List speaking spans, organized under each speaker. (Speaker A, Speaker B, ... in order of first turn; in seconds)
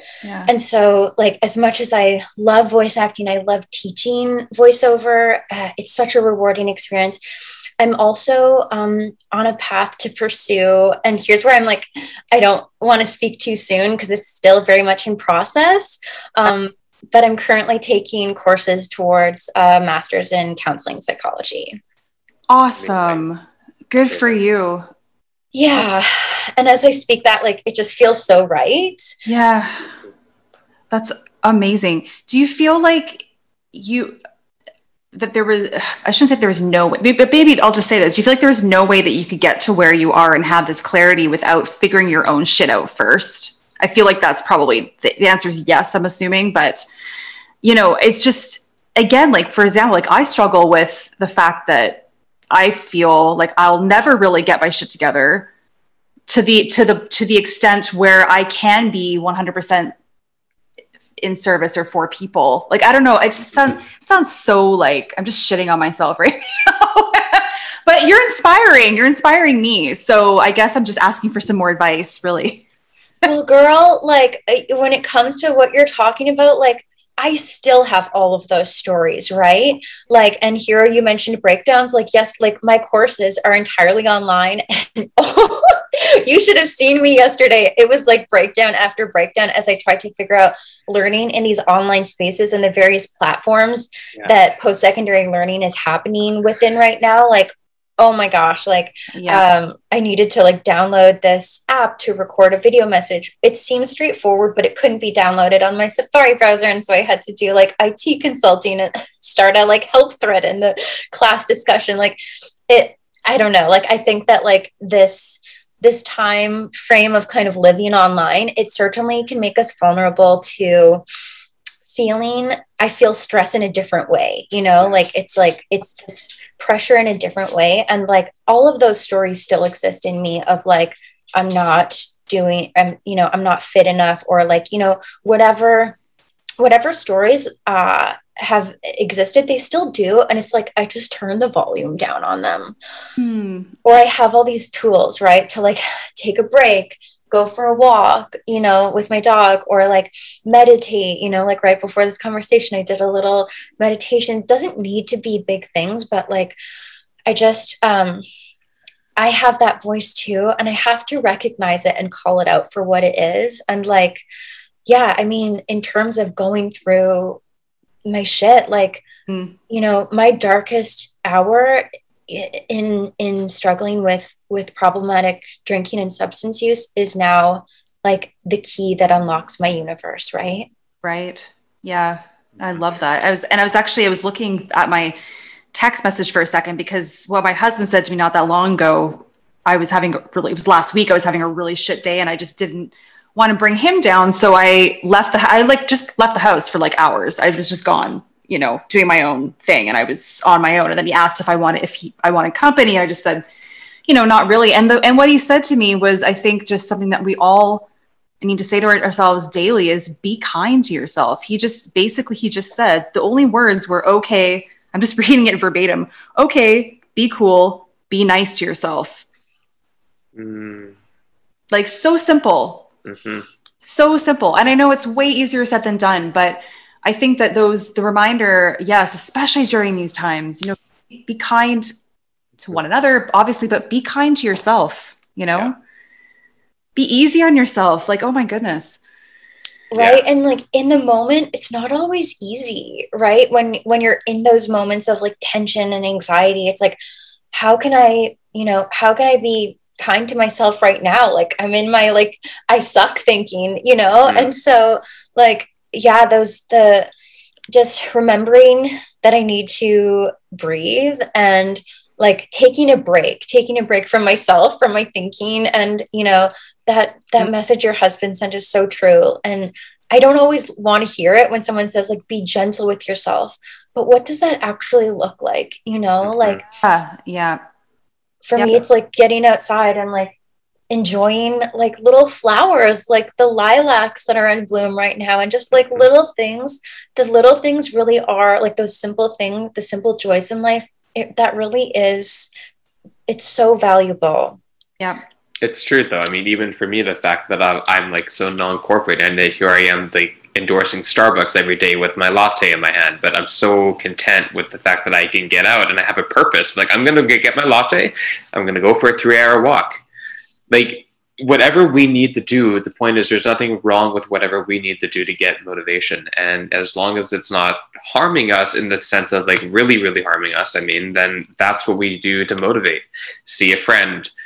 Speaker A: 0.2-0.5, 22.5-24.9, 29.2-29.9, 30.9-34.2, 35.1-46.8, 47.6-55.5, 56.3-59.9, 61.2-72.6, 99.1-99.4, 143.2-143.7, 169.3-169.6, 181.0-185.2, 185.7-203.4, 204.1-207.9, 208.4-219.2, 221.7-222.9, 223.8-231.9, 232.6-235.8, 236.9-239.0, 276.7-277.6, 278.6-278.8
Speaker B: 0.5-7.2, 7.8-21.8, 25.5-29.1, 73.2-121.0, 121.9-136.0, 136.6-142.8, 143.8-156.6, 157.2-158.2, 159.2-164.2, 164.8-167.4, 168.0-169.0, 169.7-180.7, 239.9-247.0, 247.5-257.1, 257.7-276.6, 278.4-280.3, 280.9-292.5, 293.3-294.6
Speaker C: 22.8-23.2, 24.1-24.4, 220.3-220.9, 223.0-223.5, 239.9-240.2, 254.2-254.5, 276.2-276.6, 295.6-310.0, 310.7-324.3